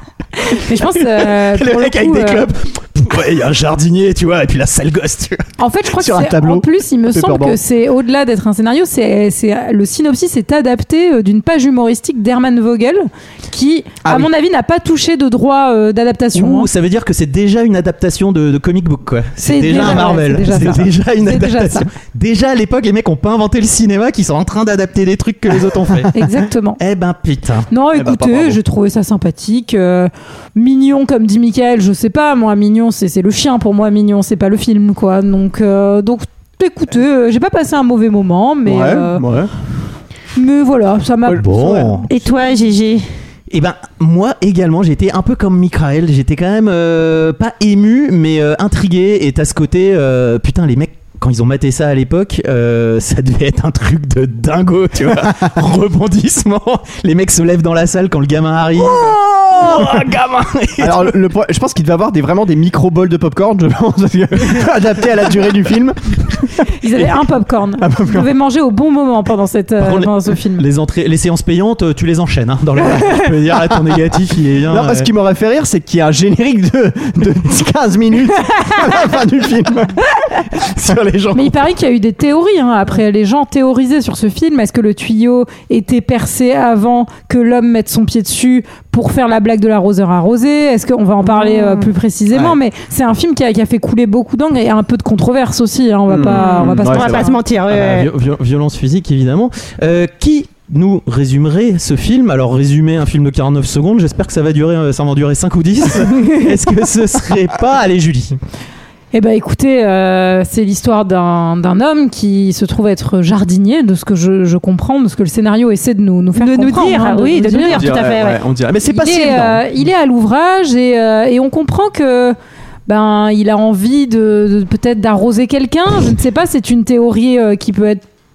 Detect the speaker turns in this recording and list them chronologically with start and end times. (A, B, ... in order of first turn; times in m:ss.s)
0:00.5-0:02.4 A
0:00.8-0:05.5 B
0:05.6-0:16.7 A
0:05.9-0:07.6 C
0:14.0-0:14.3 C
0:16.4-0:26.2 B
0:19.4-0:21.9 A
0:26.1-0:26.8 A
0:26.8-0:27.7 B
0:27.7-0:39.2 A
0:27.9-0:28.6 C
0:38.6-0:39.5 C
0:40.4-0:41.8 A
0:41.3-0:42.1 B
0:41.3-0:42.0 C
0:42.1-0:43.1 D
0:43.5-1:01.2 B
1:00.8-1:06.7 C
1:06.8-1:10.7 A
1:07.8-1:08.3 C
1:09.8-1:15.1 B
1:14.7-1:21.5 C
1:21.3-1:37.4 A
1:31.3-1:31.9 D
1:32.3-1:32.6 C
1:36.1-1:37.3 C
1:36.2-1:38.1 D
1:37.7-1:48.4 B
1:49.1-1:58.0 A
1:56.4-1:58.4 D
1:57.7-1:59.8 C
1:58.8-2:08.0 A